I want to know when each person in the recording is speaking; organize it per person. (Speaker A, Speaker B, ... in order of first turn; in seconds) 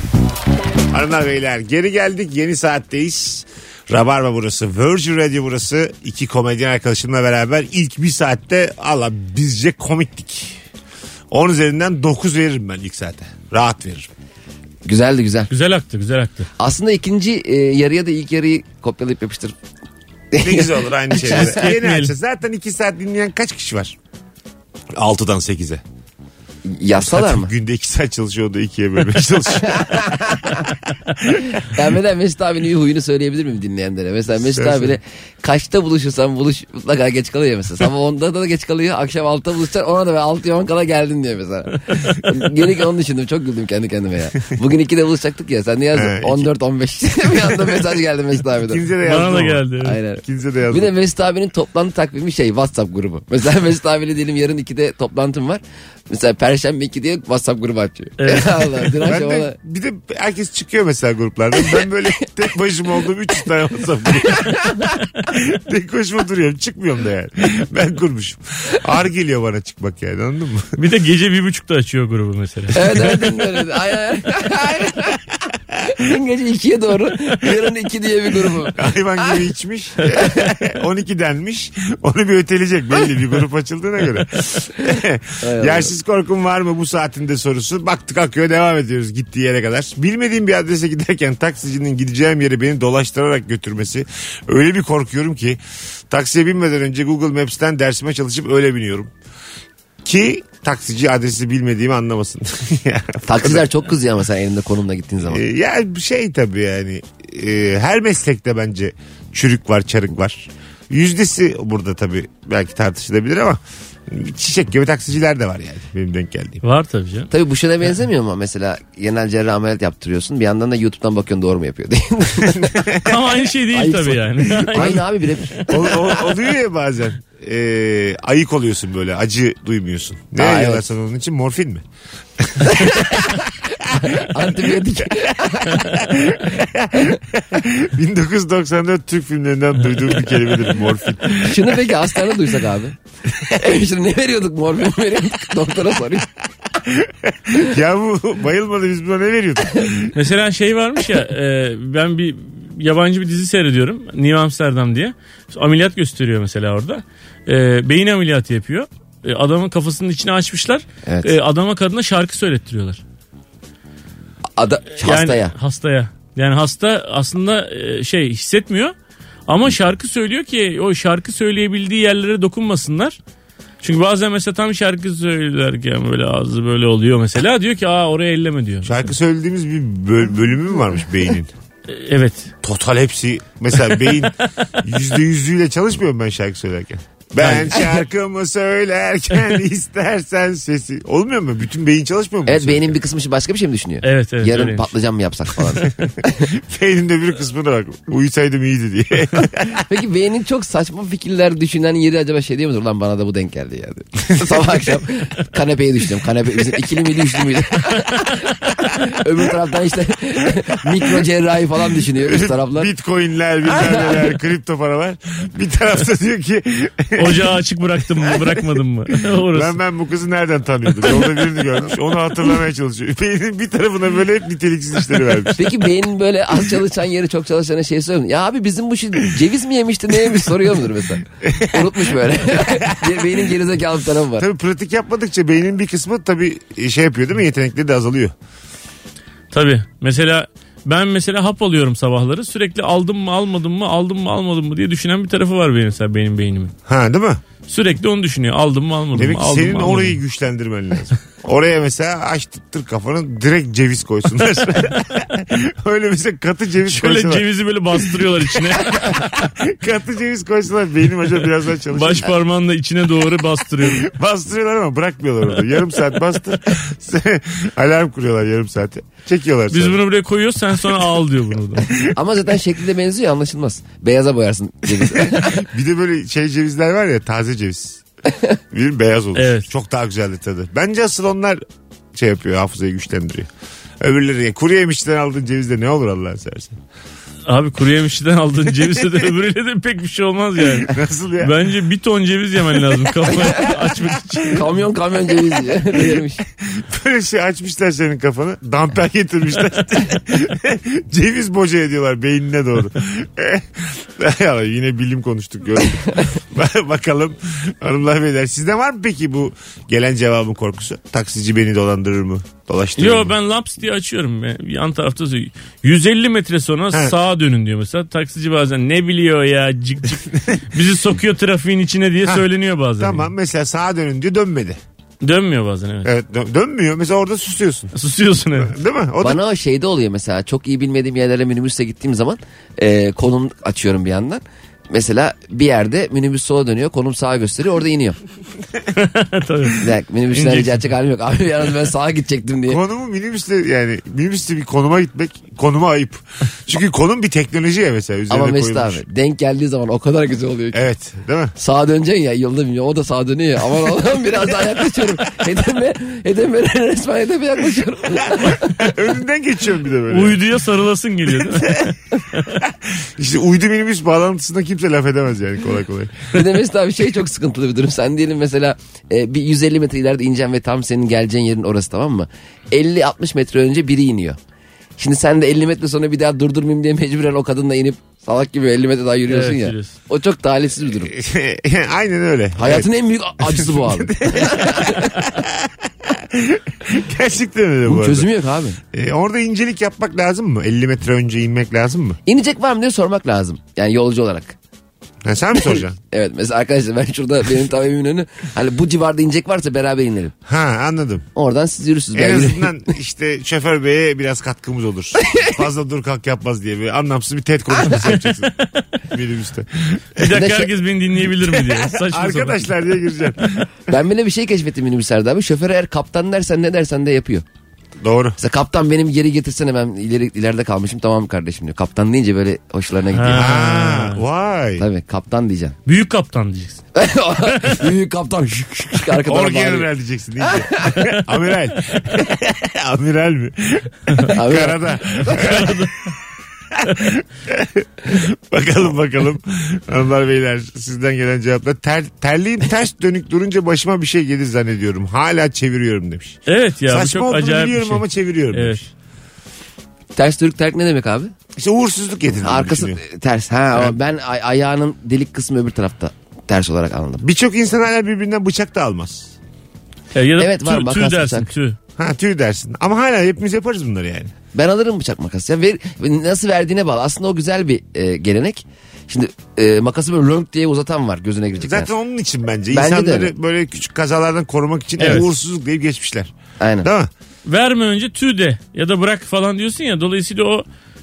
Speaker A: 0.9-10.6, 11.3-14.1, 20.4-24.0, 24.9-25.8, 27.0-31.6, 34.4-35.0, 45.9-46.5, 48.6-49.7, 50.2-50.9, 59.0-70.8, 78.7-99.1, 100.0-103.7, 105.3-116.6, 122.4-123.3, 124.7-125.0, 125.7-131.8, 132.4-141.8, 146.8-150.2, 178.8-181.5, 182.6-192.9, 196.4-199.9, 212.2-217.6, 218.2-225.7, 231.4-233.5, 234.4-238.3, 246.9-247.4, 249.1-257.4, 258.6-262.4, 263.8-270.0, 271.8-272.1, 275.1-278.0, 278.7-281.6, 282.1-283.5, 284.0-286.8, 290.9-291.6, 296.6-313.3, 323.0-324.8, 326.0-327.9, 328.6-329.4, 342.7-349.1, 350.7-351.5, 358.3-360.4, 361.4-361.9, 362.6-366.3, 381.0-382.9, 383.4-388.3, 388.9-392.2, 395.2-396.0, 400.5-401.3, 402.1-410.4, 411.4-413.7, 418.0-418.4, 423.3-424.9, 429.2-436.0, 436.7-448.8, 451.6-453.0, 457.2-459.3, 462.0-464.3, 471.6-477.1
Speaker B: 14.8-15.5, 16.6-19.6, 20.3-21.6, 26.6-27.5, 29.6-30.6, 31.4-48.9, 49.8-59.6, 64.3-64.9, 72.7-75.2, 75.8-79.4, 85.4-85.9, 103.2-105.4, 117.3-123.0, 123.7-126.3, 130.4-130.8, 132.6-136.0, 141.4-146.3, 161.1-161.3, 164.6-165.5, 192.5-196.5, 199.7-212.9, 225.6-234.5, 272.1-275.7, 294.5-296.4, 329.2-338.2, 339.7-342.8, 348.3-350.8, 351.6-358.9, 366.3-374.4, 375.0-381.1, 382.6-385.2, 387.9-388.8, 392.3-394.6, 395.6-400.3, 401.4-402.9, 405.2-405.5, 410.2-410.7, 413.9-417.4, 418.4-423.5, 424.8-425.8, 426.9-429.9, 430.4-431.0, 434.3-435.4, 450.1-451.3, 452.4-457.2, 460.4-461.5, 464.5-471.9, 472.7-473.3, 476.6-476.9
Speaker C: 15.5-16.5, 21.2-22.1, 49.0-50.0, 58.2-59.0, 70.8-73.4, 116.6-117.3, 123.0-125.0, 150.1-163.0, 165.0-168.9, 169.5-173.2, 173.8-179.1, 181.9-182.5, 187.4-187.9, 194.0-194.9, 217.2-219.8, 239.5-246.7, 247.7-250.2, 256.9-259.4, 261.9-264.1, 269.7-271.9, 279.4-279.7, 287.5-294.7, 313.0-323.3, 325.2-326.1, 327.9-328.7, 338.9-340.9, 360.1-362.6, 379.3-379.9, 407.9-408.5, 410.2-412.7, 423.1-424.2, 425.9-426.8, 427.5-427.9, 435.3-436.1, 446.5-448.9, 460.1-461.8, 475.0-475.3, 477.4-480.6